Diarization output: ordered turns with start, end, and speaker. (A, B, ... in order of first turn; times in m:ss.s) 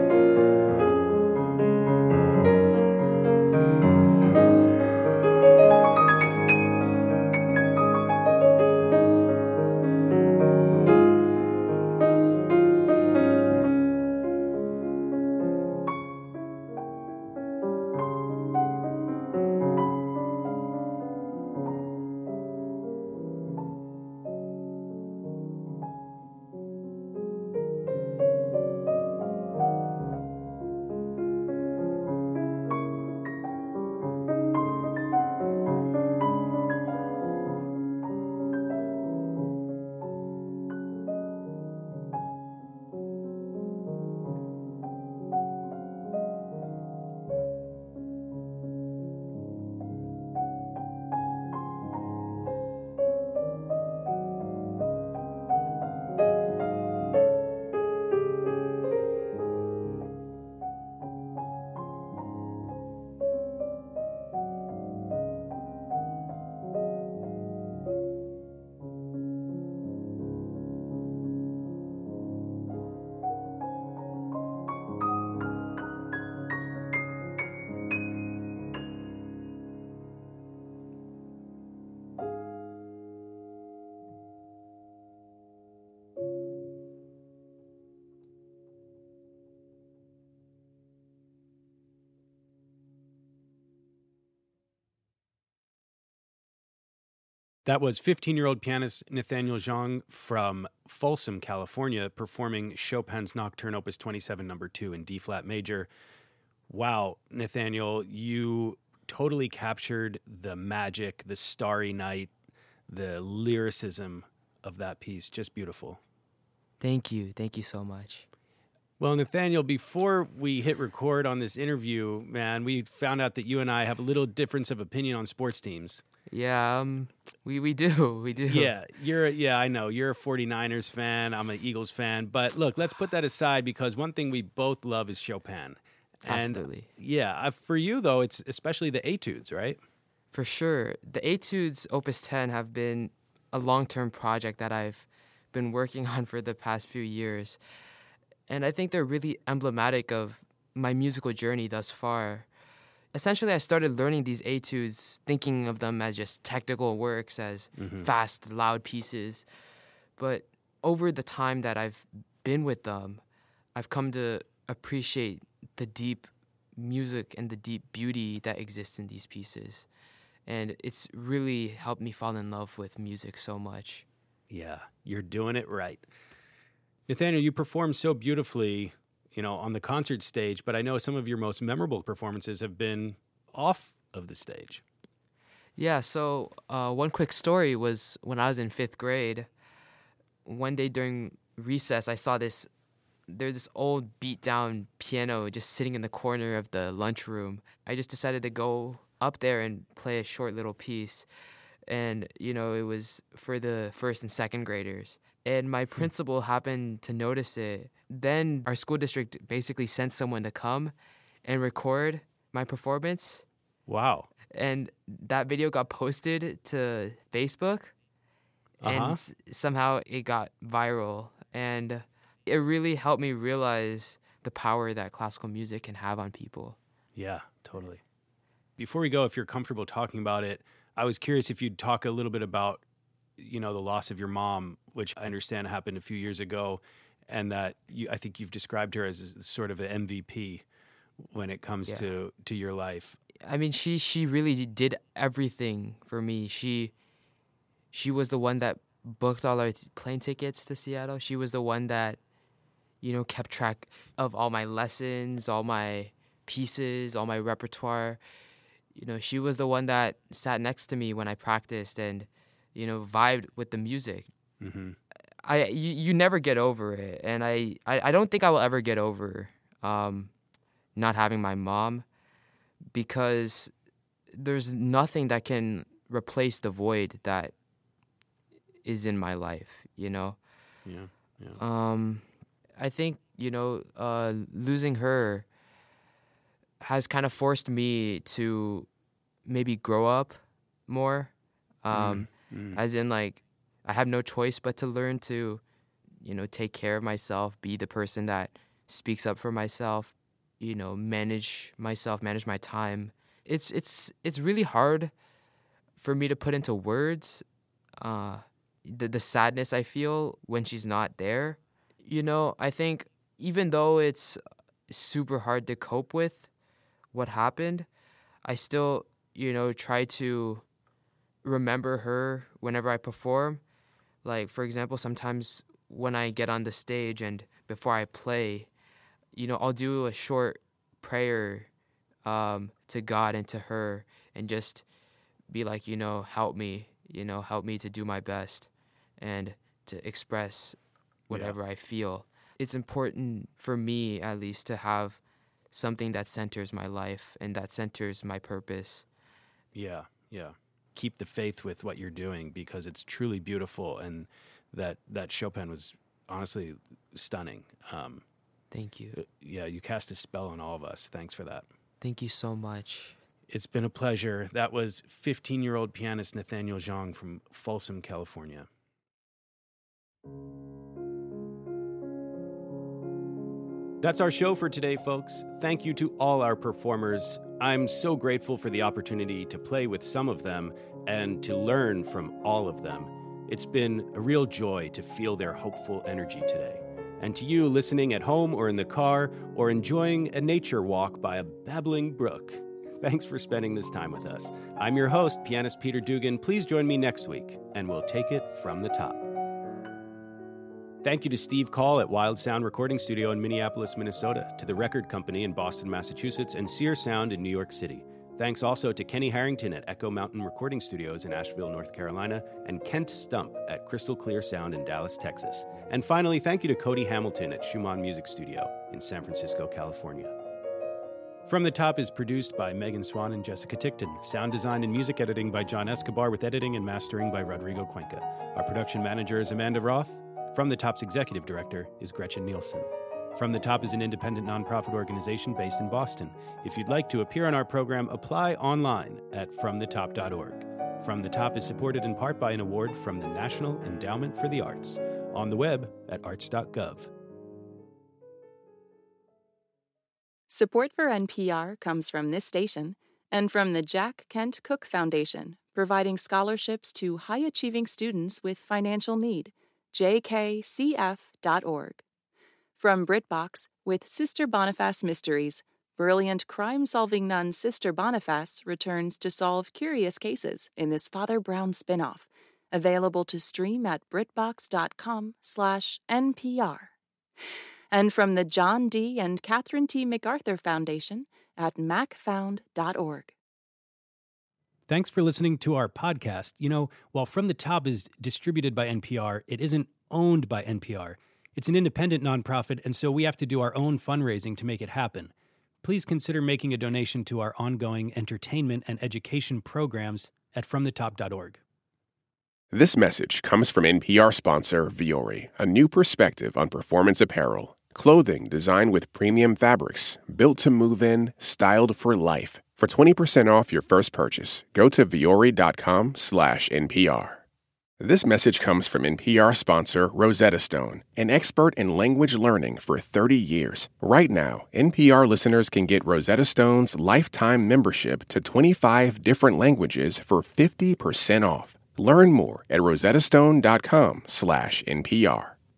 1:37.6-1:45.9 A
1:46.7-1:52.3 A
1:52.9-1:56.0 A
1:56.8-1:58.2 B
1:59.0-2:06.0 A
2:06.3-2:08.7 B
2:08.5-2:19.8 A
2:16.2-2:16.9 B
2:20.3-2:27.6 B
2:28.5-2:32.5 B
2:33.1-2:39.5 B
2:37.8-2:38.1 A
2:40.2-2:43.2 B
2:43.8-2:49.9 B
2:50.5-2:54.1 B
2:54.5-2:56.0 A
2:57.1-3:04.8 A
3:05.8-3:09.5 B
3:10.5-3:12.7 B
3:13.3-3:21.3 B
3:21.9-3:33.5 B
3:33.9-3:34.3 A
3:34.5-3:37.9 B
3:38.8-3:39.2 A
3:38.8-3:46.8 B
3:47.2-3:48.0 A
3:48.8-3:52.8 A
3:53.4-4:00.6 A
4:01.3-4:03.2 A
4:03.4-4:06.9 B
4:07.9-4:12.2 B
4:13.0-4:18.2 B
4:18.9-4:24.3 B
4:24.6-4:25.0 A
4:25.4-4:30.3 B
4:31.0-4:32.1 B
4:32.9-4:33.7 B
4:34.3-4:37.5 B
4:38.8-4:40.4 B
4:40.9-4:41.6 A
4:41.6-4:45.5 B
4:46.8-4:48.9 B
4:49.5-4:51.3 B
4:51.8-4:55.6 B
4:51.9-4:52.8 A
4:56.2-5:05.1 B
5:06.0-5:07.4 B
5:08.0-5:16.5 B
5:17.1-5:17.9 B
5:18.4-5:20.6 B
5:21.4-5:23.6 B
5:24.2-5:28.7 B
5:29.3-5:31.7 B
5:32.2-5:34.8 B
5:35.5-5:40.8 B
5:41.3-5:49.1 B
5:41.3-5:41.6 A
5:49.8-5:58.2 A
5:58.7-5:59.2 B
5:59.1-6:01.7 A
6:02.0-6:03.2 B
6:03.5-6:08.7 A
6:14.0-6:39.2 A
6:41.0-7:00.3 A
7:01.5-7:27.1 A
7:30.5-7:42.0 C
7:42.8-7:56.9 C
7:57.9-8:03.3 C
8:04.9-8:21.6 A
8:22.7-8:37.4 D
8:38.0-8:55.6 D